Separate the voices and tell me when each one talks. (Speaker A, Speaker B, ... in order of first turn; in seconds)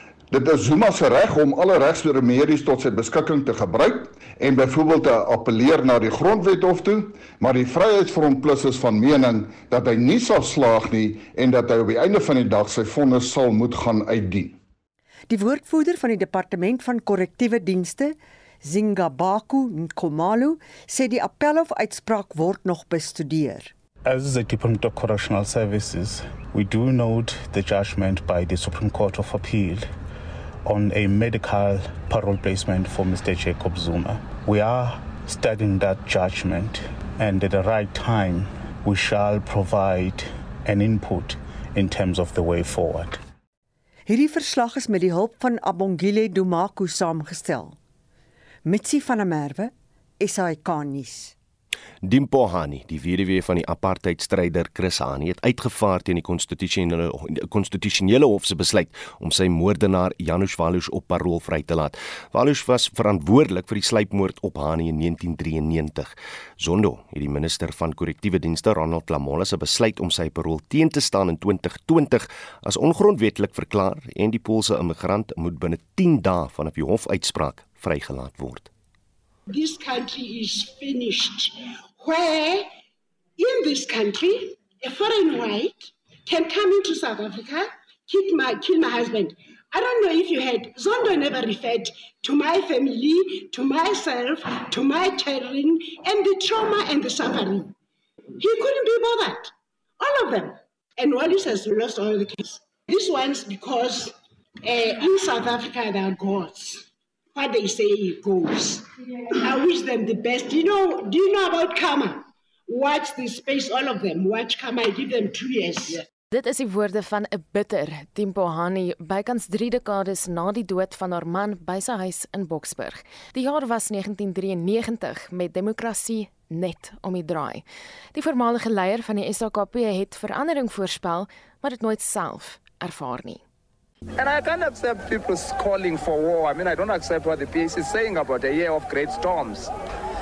Speaker A: 0.3-14.6
Speaker B: 15.3-23.7, 44.1-47.8, 48.6-51.3
Speaker C: 24.1-29.9, 30.6-43.2
Speaker D: 52.0-78.7
Speaker E: 79.5-82.7, 83.4-97.7, 98.4-116.0
Speaker F: 116.3-133.4
Speaker G: 134.2-139.7